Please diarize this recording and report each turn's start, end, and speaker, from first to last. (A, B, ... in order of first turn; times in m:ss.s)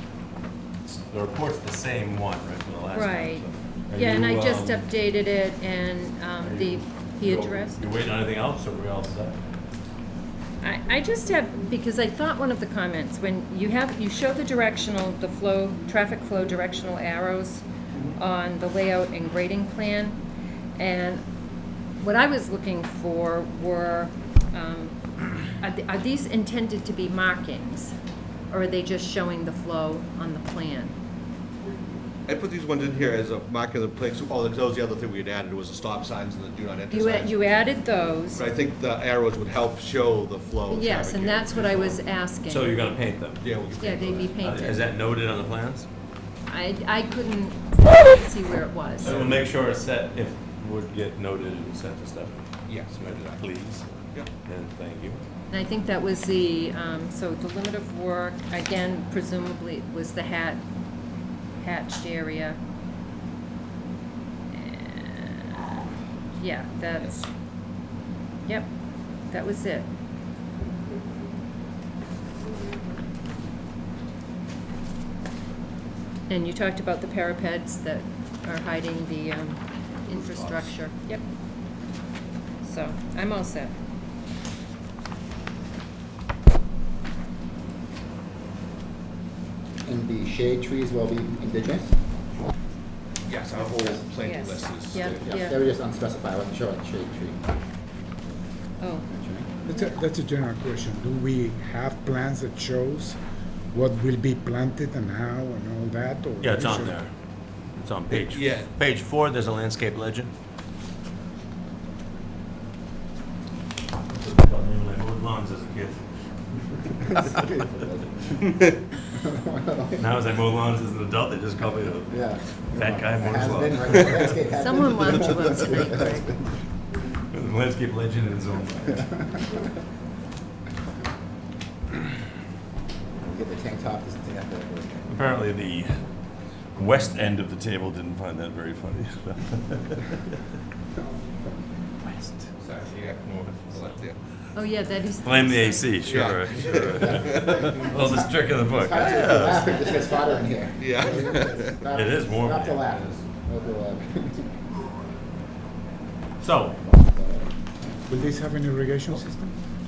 0:00.8-0:04.8 A
0:02.9-0:07.8 B
0:06.4-0:09.4 A
0:10.6-0:17.6 B
0:18.2-0:20.2 B
0:20.8-0:21.2 B
0:22.0-0:27.9 B
0:28.5-0:31.0 B
0:32.3-0:37.4 C
0:36.9-0:38.4 B
0:38.3-0:42.0 C
0:40.7-0:42.8 B
0:42.5-0:43.5 A
0:43.4-0:44.3 C
0:43.8-0:44.9 B
0:44.4-0:45.9 A
0:46.5-0:49.2 B
0:49.0-0:53.8 A
0:49.0-0:49.5 C
0:52.7-0:53.5 C
0:54.4-0:55.2 A
0:55.5-1:00.6 B
1:01.6-1:02.6 B
1:04.6-1:05.7 B
1:06.4-1:07.2 B
1:08.4-1:08.7 B
1:09.3-1:09.9 B
1:16.3-1:21.2 B
1:22.6-1:23.7 B
1:29.8-1:32.0 D
1:33.2-1:35.3 C
1:33.6-1:34.0 D
1:34.2-1:35.6 B
1:35.0-1:37.4 D
1:38.8-1:39.1 B
1:39.1-1:39.5 D
1:39.7-1:43.2 E
1:39.7-1:40.0 B
1:43.7-1:47.0 E
1:46.4-1:47.1 A
1:47.8-1:50.3 A
1:48.1-1:48.7 C
1:54.1-1:56.0 A
1:57.1-2:00.2 D
2:00.0-2:04.4 A
2:02.1-2:06.5 D
2:04.5-2:06.3 B
2:07.3-2:09.2 A
2:13.2-2:15.1 D
2:15.1-2:16.0 A
2:16.8-2:20.2 A
2:22.1-2:22.5 A
2:22.7-2:24.2 C
2:24.6-2:25.9 B
2:25.2-2:29.8 A
2:26.0-2:27.6 C
2:27.2-2:28.2 D
2:28.8-2:34.5 D
2:30.8-2:31.8 C
2:31.9-2:32.8 A
2:36.4-2:36.8 A
2:36.8-2:37.5 D
2:38.1-2:39.5 E